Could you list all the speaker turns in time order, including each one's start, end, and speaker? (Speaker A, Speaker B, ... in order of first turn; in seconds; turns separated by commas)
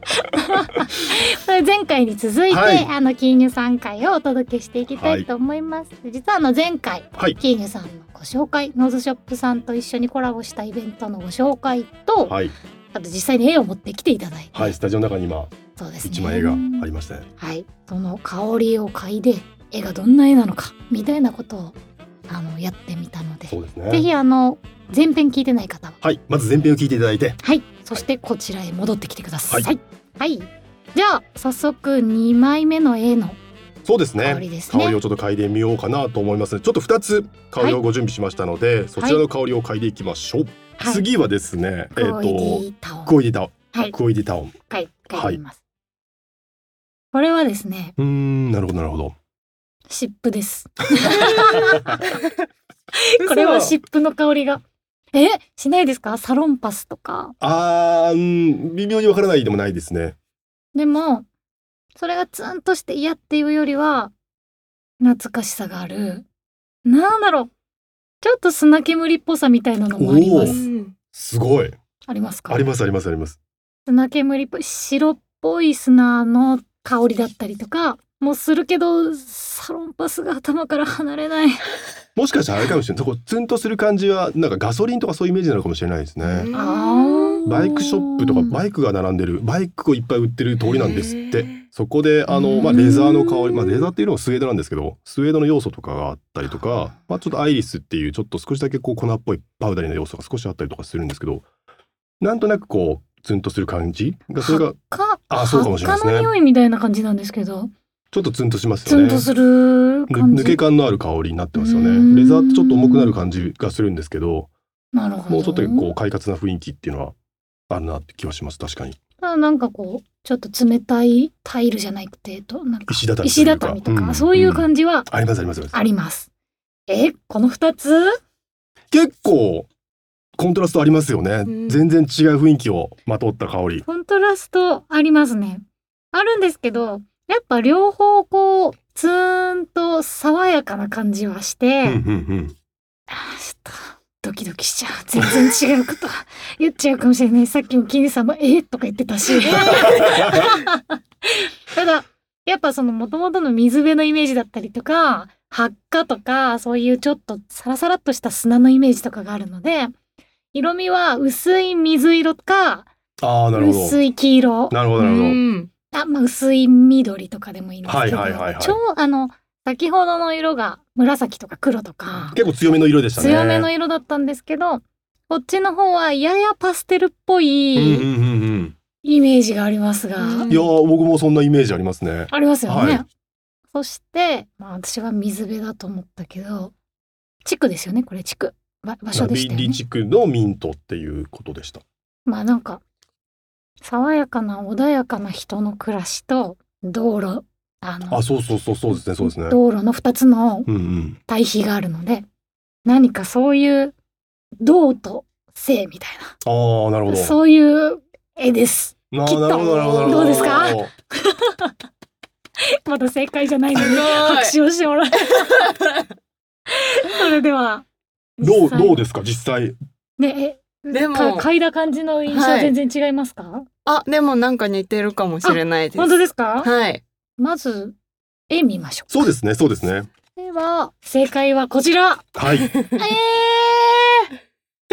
Speaker A: 0.3-12.4, Speaker B: 2.5-2.9, Speaker B: 4.9-5.3, Speaker B: 12.3-12.5, Speaker A: 12.9-14.7, Speaker B: 14.5-15.5, Speaker A: 15.7-16.9, Speaker B: 16.0-17.3, Speaker A: 17.4-21.8, Speaker A: 22.3-26.0, Speaker B: 23.5-24.1, Speaker B: 26.0-27.4, Speaker A: 27.4-33.4, Speaker B: 33.8-44.5, Speaker A: 34.2-35.0, Speaker A: 39.0-39.2, Speaker A: 40.8-41.1, Speaker A: 41.9-43.1, Speaker A: 44.7-45.6, Speaker B: 45.1-45.4, Speaker A: 47.1-47.9, Speaker B: 48.0-49.1, Speaker A: 49.9-52.0, Speaker B: 51.0-52.0, Speaker C: 51.2-52.2, Speaker A: 52.9-57.3, Speaker C: 53.2-53.7, Speaker B: 57.4-60.1, Speaker A: 60.7-61.3, Speaker A: 62.0-64.1, Speaker A: 65.0-66.2, Speaker A: 66.8-67.5, Speaker A: 68.2-70.6, Speaker B: 70.0-70.6, Speaker C: 70.3-70.9, Speaker B: 71.1-71.8, Speaker A: 72.0-72.7, Speaker B: 72.5-73.4, Speaker A: 73.8-81.7, Speaker B: 82.2-86.5, Speaker C: 86.2-87.4, Speaker A: 86.5-88.6, Speaker B: 87.4-101.4, Speaker C: 90.6-91.6, Speaker A: 92.3-93.9, Speaker A: 96.4-97.0, Speaker B: 102.2-104.8, Speaker A: 104.4-107.7, Speaker B: 105.3-106.3, Speaker B: 108.1-109.3, Speaker A: 108.8-110.6, Speaker B: 110.1-114.5, Speaker A: 111.5-113.2, Speaker A: 114.9-115.9, Speaker B: 115.3-117.1, Speaker B: 117.7-119.0, Speaker A: 119.2-125.1, Speaker B: 122.9-125.8, Speaker A: 125.7-126.3, Speaker A: 126.9-128.2, Speaker B: 128.9-129.7, Speaker B: 130.4-133.8, Speaker C: 131.4-131.8, Speaker A: 133.8-142.0, Speaker B: 141.8-142.5, Speaker A: 143.1-159.9, Speaker B: 149.5-150.5, Speaker C: 149.6-150.0, Speaker A: 160.5-162.9, Speaker B: 163.2-164.0, Speaker A: 163.5-165.1, Speaker B: 164.7-165.4, Speaker C: 165.0-165.7, Speaker A: 165.9-172.4, Speaker B: 167.8-168.8, Speaker B: 172.3-173.7, Speaker A: 173.2-178.1, Speaker B: 177.8-178.7, Speaker A: 179.0-180.5, Speaker C: 180.2-180.7, Speaker B: 180.5-183.0, Speaker A: 182.3-183.1, Speaker A: 183.7-186.7, Speaker A: 187.4-189.8, Speaker B: 189.1-191.8, Speaker A: 192.2-192.8, Speaker A: 193.8-198.2, Speaker B: 198.1-199.6, Speaker A: 198.9-200.7, Speaker B: 200.7-201.2, Speaker A: 201.3-202.2, Speaker A: 202.8-203.9, Speaker A: 204.6-206.3, Speaker B: 206.4-207.4, Speaker A: 207.1-211.7, Speaker B: 209.1-210.9, Speaker C: 209.7-210.5, Speaker A: 212.8-215.7, Speaker C: 213.7-214.6, Speaker C: 215.2-216.1, Speaker A: 216.7-217.8, Speaker A: 218.4-219.0, Speaker B: 218.4-219.8, Speaker A: 220.2-223.7, Speaker C: 220.9-221.5, Speaker C: 222.2-222.8, Speaker C: 223.8-227.0, Speaker A: 225.4-226.7, Speaker A: 227.4-227.9, Speaker A: 228.5-229.3, Speaker B: 229.1-230.1, Speaker A: 230.3-232.3, Speaker B: 232.3-232.7, Speaker A: 232.9-234.3